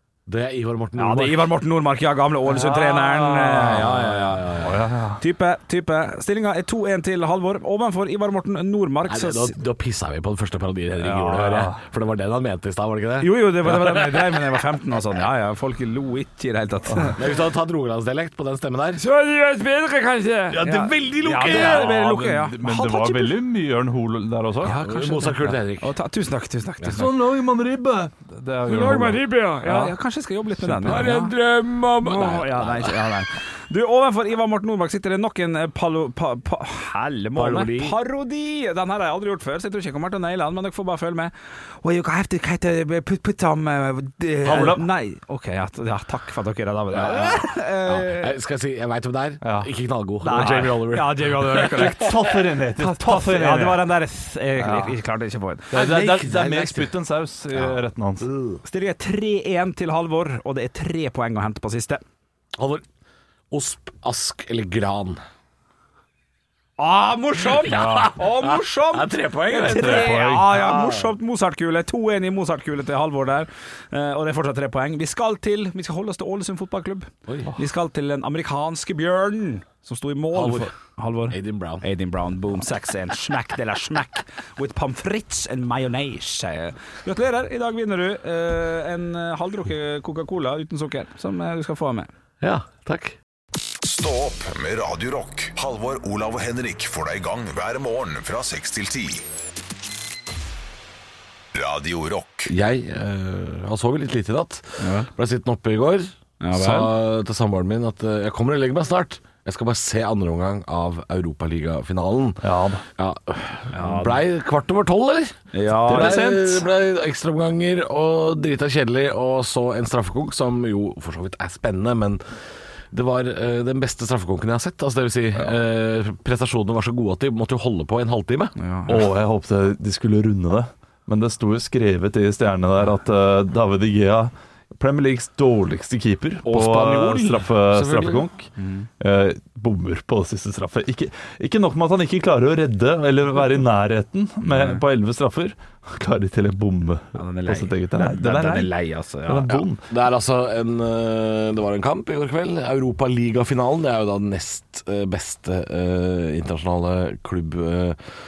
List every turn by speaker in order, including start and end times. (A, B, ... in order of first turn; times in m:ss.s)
0:00.3-0:01.5 A
0:00.9-0:04.4 B
0:02.5-0:04.8 A
0:04.6-0:05.2 C
0:05.2-0:09.5 B
0:09.1-0:14.3 A
0:11.0-0:11.8 C
0:13.2-0:17.2 B
0:17.2-0:19.0 A
0:19.1-0:23.4 B
0:20.5-0:24.8 C
0:20.5-0:21.9 A
0:24.6-0:27.0 B
0:24.7-0:25.9 A
0:26.9-0:30.0 C
0:28.7-0:31.4 B
0:30.6-0:31.1 C
0:30.8-0:33.0 A
0:32.0-0:48.3 B
0:37.3-0:37.9 A
0:44.4-0:44.8 C
0:46.9-0:52.0 A
0:49.4-0:49.7 C
0:50.2-0:52.2 B
0:51.4-0:53.9 C
0:52.8-0:56.9 B
0:54.6-0:55.0 C
0:55.7-0:58.3 C
0:58.6-1:02.0 B
1:02.6-1:02.8 A
1:03.5-1:05.2 A
1:06.8-1:32.1 B
1:07.5-1:11.1 A
1:07.7-1:08.1 C
1:09.6-1:10.5 C
1:20.3-1:20.7 A
1:21.3-1:21.8 A
1:32.4-1:33.2 A
1:33.8-1:39.2 D
1:41.5-1:42.5 D
1:42.5-1:52.4 A
1:44.8-1:45.1 B
1:46.4-1:46.9 B
1:52.4-1:52.8 C
1:53.0-1:55.4 A
1:53.7-1:54.2 B
1:55.5-1:56.2 B
1:55.8-1:56.7 C
1:55.9-2:02.3 A
2:02.9-2:08.5 A
2:08.6-2:09.1 B
2:08.9-2:28.7 C
2:16.4-2:18.2 A
2:18.6-2:18.9 B
2:24.5-2:24.8 B
2:27.1-2:29.6 B
2:29.2-2:29.9 C
2:29.9-2:38.1 A